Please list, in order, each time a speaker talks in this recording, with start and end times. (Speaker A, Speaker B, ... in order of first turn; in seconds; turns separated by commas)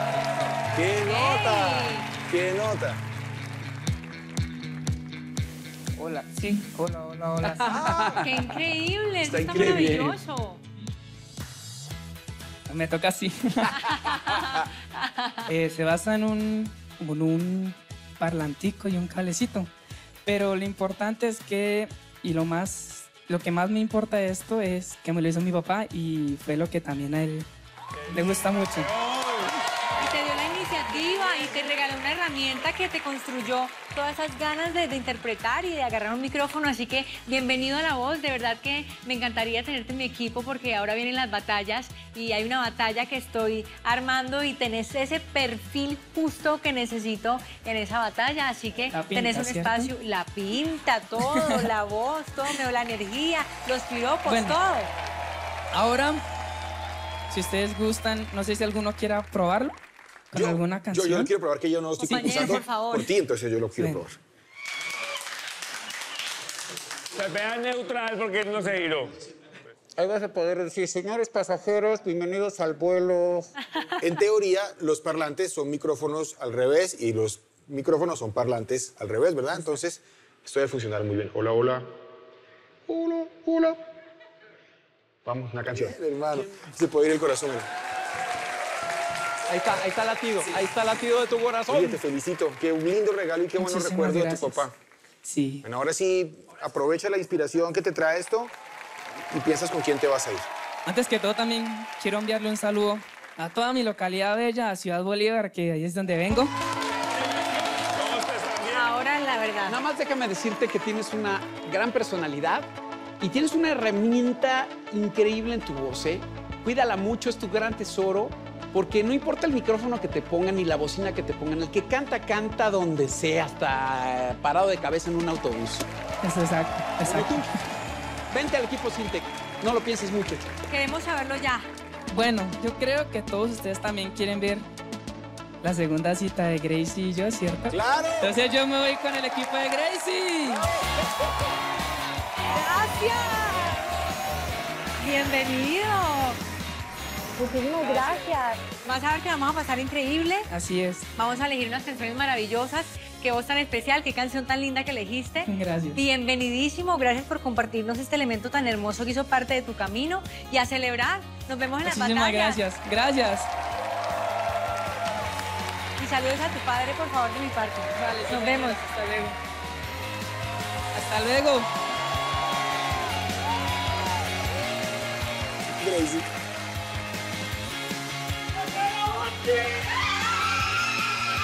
Speaker A: 0.7-3.0, Speaker B: 1.0-2.1, Speaker C: 6.0-7.8, Speaker D: 7.4-8.3, Speaker A: 7.7-8.2, Speaker B: 8.2-10.6, Speaker D: 9.3-10.2, Speaker A: 9.5-10.0, Speaker C: 12.7-14.2, Speaker B: 13.8-15.4, Speaker C: 15.5-19.7, Speaker C: 20.2-27.5, Speaker C: 28.1-28.9, Speaker E: 28.9-29.5, Speaker B: 30.0-54.9, Speaker C: 48.9-49.9, Speaker C: 54.2-54.6, Speaker C: 55.7-56.2, Speaker C: 57.3-59.8, Speaker C: 60.3-61.3, Speaker A: 60.3-64.2, Speaker C: 62.0-62.6, Speaker B: 62.1-63.1, Speaker C: 63.8-64.0, Speaker E: 67.1-69.1, Speaker F: 70.0-73.5, Speaker A: 74.0-81.8, Speaker A: 82.9-83.8, Speaker A: 85.2-87.7, Speaker D: 89.5-92.0, Speaker A: 91.7-94.7, Speaker C: 93.6-94.6, Speaker C: 95.2-95.6, Speaker A: 95.6-98.5, Speaker A: 99.3-100.5, Speaker C: 100.8-106.5, Speaker E: 107.9-108.8, Speaker B: 108.7-109.8, Speaker D: 109.7-112.7, Speaker D: 113.2-125.9, Speaker C: 126.2-127.5, Speaker D: 127.0-127.5, Speaker D: 128.3-130.5, Speaker B: 130.7-131.7, Speaker C: 132.1-134.7, Speaker C: 135.6-140.6, Speaker A: 137.7-138.3, Speaker B: 142.5-143.8, Speaker B: 145.0-146.4, Speaker B: 147.4-150.5, Speaker C: 150.5-151.1, Speaker B: 151.2-162.6, Speaker C: 155.4-156.0, Speaker C: 161.8-163.5, Speaker B: 166.0-168.9, Speaker C: 167.9-169.3, Speaker C: 170.9-171.7, Speaker A: 175.7-176.2